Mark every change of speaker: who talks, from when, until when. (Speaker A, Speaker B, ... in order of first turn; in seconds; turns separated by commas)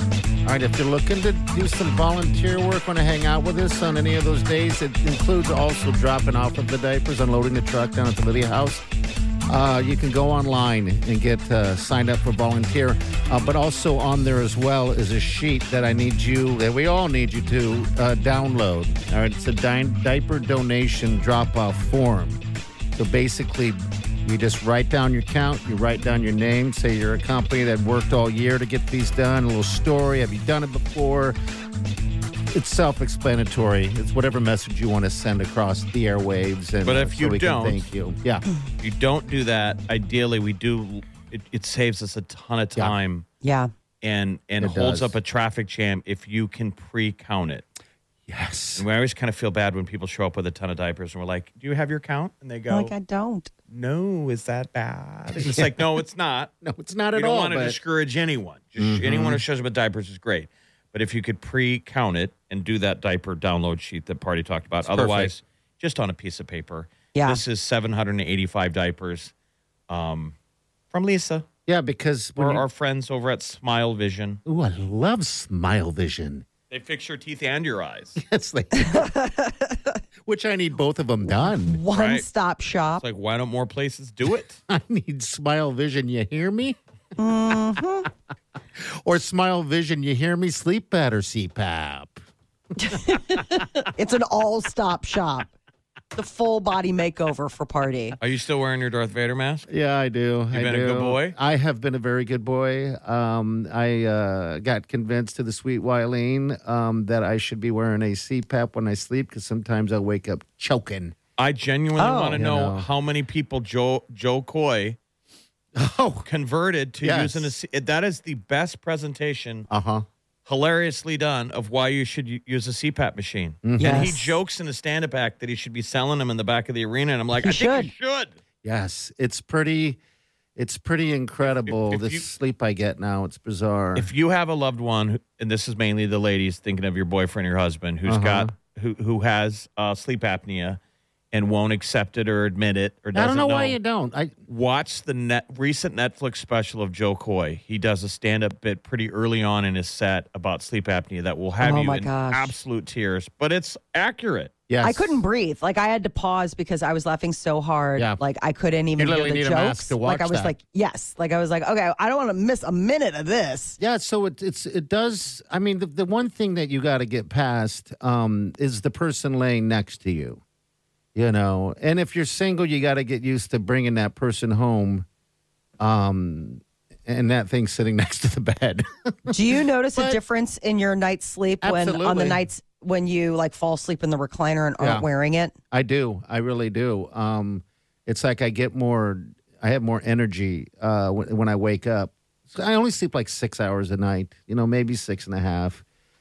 Speaker A: 0.5-8.8, Speaker A: 9.5-22.4, Speaker A: 22.9-31.4, Speaker A: 32.5-38.5, Speaker B: 36.8-37.9, Speaker B: 38.8-43.3, Speaker C: 43.4-43.7, Speaker B: 44.0-47.6, Speaker A: 44.6-45.1, Speaker A: 48.3-48.9, Speaker B: 48.8-52.9, Speaker C: 52.7-53.5, Speaker B: 53.7-56.5, Speaker A: 55.3-55.8, Speaker A: 56.6-57.8, Speaker B: 57.1-69.3, Speaker A: 58.8-59.4, Speaker A: 64.8-65.3, Speaker C: 67.1-67.4, Speaker B: 69.9-70.3, Speaker B: 70.9-71.5, Speaker A: 71.7-72.6, Speaker B: 72.4-74.4, Speaker A: 74.5-76.5, Speaker B: 76.7-78.2, Speaker A: 78.2-79.2, Speaker C: 78.8-79.8, Speaker A: 80.3-81.8, Speaker C: 81.5-83.0, Speaker B: 81.9-82.3, Speaker B: 83.0-84.6, Speaker A: 84.7-86.8, Speaker C: 87.2-88.1, Speaker A: 88.8-92.2, Speaker C: 92.8-95.5, Speaker A: 92.9-93.7, Speaker C: 96.2-98.2, Speaker B: 98.2-99.7, Speaker A: 99.7-111.2, Speaker B: 100.5-101.4, Speaker B: 111.4-115.0, Speaker C: 112.0-112.4, Speaker A: 112.4-112.9, Speaker A: 115.8-116.3, Speaker B: 116.3-119.7, Speaker A: 117.0-117.5, Speaker A: 119.7-120.0, Speaker B: 120.5-128.3, Speaker A: 123.6-124.1, Speaker C: 123.8-124.3, Speaker C: 127.4-127.9, Speaker A: 128.6-130.0, Speaker A: 130.6-134.1, Speaker B: 131.5-132.2, Speaker B: 134.0-140.8, Speaker A: 138.1-138.5, Speaker B: 141.3-143.8, Speaker A: 143.2-144.3, Speaker B: 144.5-154.5, Speaker C: 151.6-152.5, Speaker A: 154.7-155.2, Speaker C: 154.8-163.8, Speaker A: 159.0-160.6, Speaker A: 163.8-170.4, Speaker A: 171.2-175.1, Speaker A: 175.8-180.2, Speaker C: 179.3-185.6, Speaker A: 181.6-182.4, Speaker A: 184.8-185.1, Speaker A: 185.7-195.8